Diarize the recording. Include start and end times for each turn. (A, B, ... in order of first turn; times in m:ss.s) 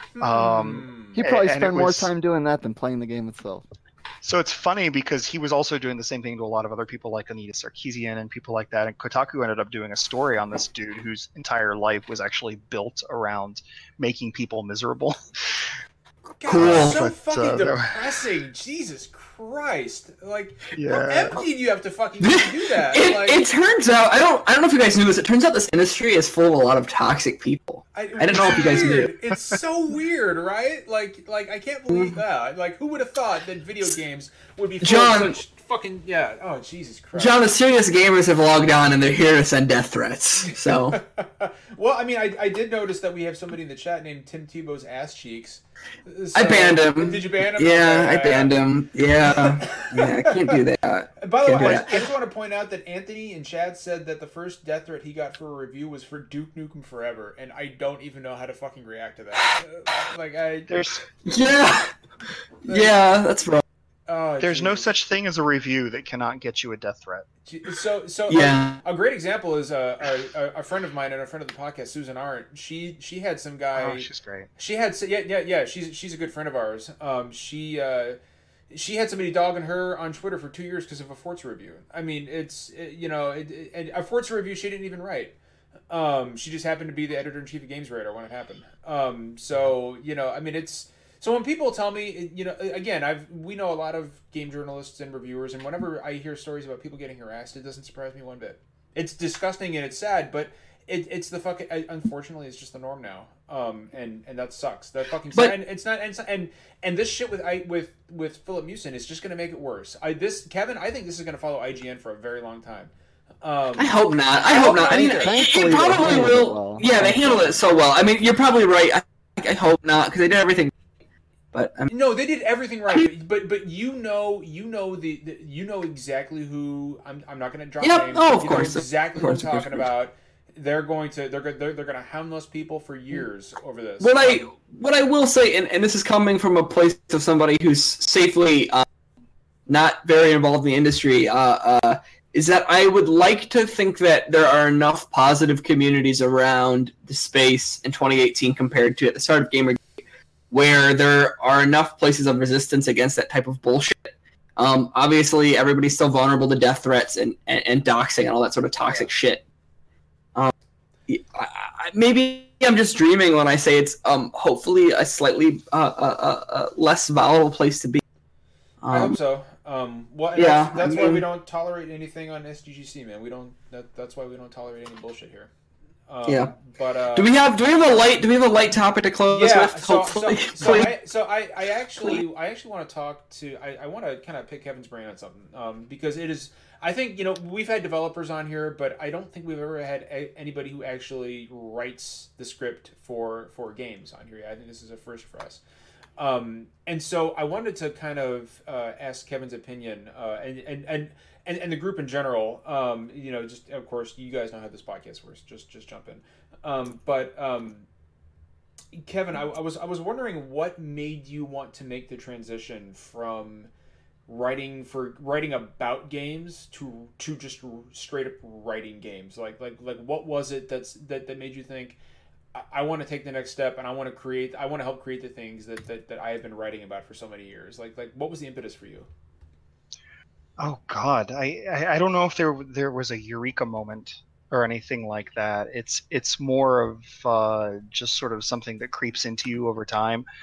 0:00.2-0:01.2 A
0:00.2-0:02.1 B
0:01.2-0:03.7 C
0:04.2-0:15.2 B
0:16.4-0:23.4 A
0:16.5-0:17.1 D
0:16.6-0:17.9 B
0:20.8-0:21.4 B
0:22.2-0:29.1 D
0:27.9-0:37.5 A
0:31.9-0:32.2 D
0:34.8-0:35.4 D
0:37.2-0:41.0 D
0:40.4-0:48.7 A
0:46.4-0:51.9 D
0:49.2-0:50.6 A
0:51.2-1:00.8 A
1:00.7-1:01.0 B
1:01.2-1:01.9 D
1:02.7-1:03.0 A
1:02.7-1:03.6 D
1:04.1-1:04.9 A
1:04.4-1:07.3 B
1:07.5-1:18.2 A
1:08.3-1:08.8 D
1:13.8-1:14.5 B
1:18.7-1:25.4 A
1:25.9-1:52.9 A
1:53.4-1:55.5 A
1:53.8-2:00.7 D
1:54.9-1:57.6 C
2:01.5-2:01.9 D
2:01.9-2:14.5 A
2:07.8-2:09.8 D
2:14.0-2:18.8 D
2:19.7-2:29.9 D
2:30.5-2:39.4 D
2:41.1-2:48.0 D
2:48.8-2:49.2 D
2:48.9-2:55.5 A
2:50.4-2:51.2 D
2:56.1-2:57.3 A
2:56.3-2:56.6 D
2:57.2-3:00.9 D
2:59.3-3:15.6 A
3:16.2-3:27.9 A
3:29.0-3:33.7 A
3:34.3-3:42.0 A
3:42.6-3:49.1 A
3:50.6-4:00.3 B